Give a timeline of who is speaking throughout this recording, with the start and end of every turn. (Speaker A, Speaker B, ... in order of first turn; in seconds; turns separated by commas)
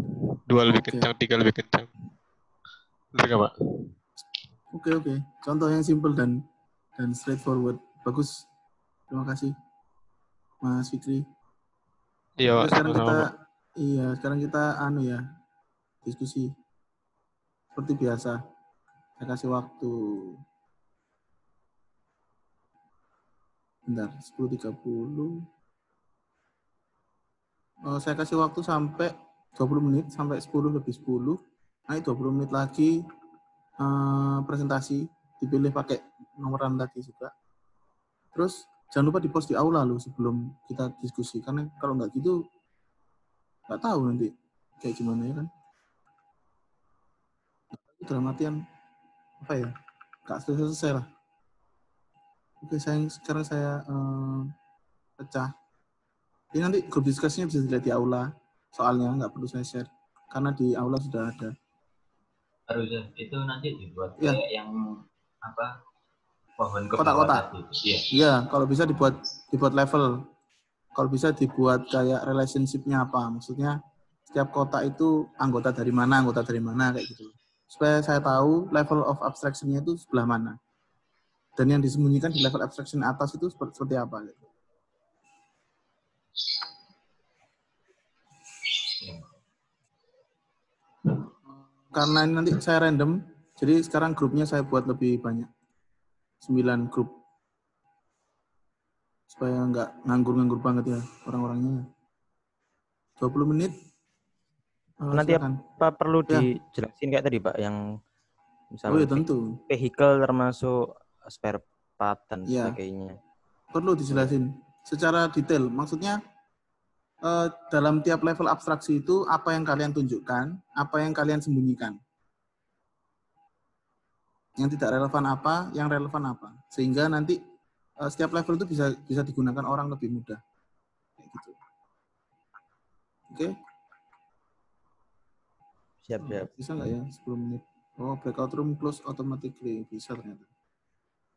Speaker A: 0.5-1.9, Speaker B: 0.7-1.1, Speaker A: 3.1-3.9, Speaker B: 4.7-6.4, Speaker B: 7.0-8.4, Speaker B: 9.1-9.5, Speaker B: 10.6-11.2, Speaker A: 12.4-13.3, Speaker B: 12.5-13.2, Speaker B: 13.8-15.2, Speaker B: 16.0-16.5, Speaker B: 17.7-18.4, Speaker B: 19.2-20.4, Speaker B: 23.9-25.3, Speaker B: 27.9-31.4, Speaker B: 31.9-32.9, Speaker B: 33.8-37.3, Speaker B: 38.3-42.4, Speaker B: 43.7-45.5, Speaker B: 47.7-48.6, Speaker B: 49.4-49.7, Speaker B: 50.3-51.1, Speaker B: 52.6-54.5, Speaker B: 55.2-55.5, Speaker B: 56.5-61.5, Speaker C: 62.7-64.8, Speaker C: 65.4-65.7, Speaker C: 66.6-68.0, Speaker B: 67.0-67.5, Speaker B: 68.1-70.1, Speaker B: 71.0-73.7, Speaker B: 74.3-80.6, Speaker B: 81.6-84.4, Speaker B: 91.9-95.5, Speaker B: 96.4-97.1, Speaker B: 99.3-101.8, Speaker B: 103.2-103.7, Speaker B: 105.0-105.6, Speaker D: 105.1-107.8, Speaker D: 108.7-113.2, Speaker B: 108.9-109.5, Speaker B: 112.5-112.8, Speaker B: 113.7-116.2, Speaker B: 117.2-122.0, Speaker B: 124.6-127.4, Speaker B: 128.0-130.4, Speaker B: 131.2-131.6, Speaker D: 136.0-136.5, Speaker B: 136.2-140.5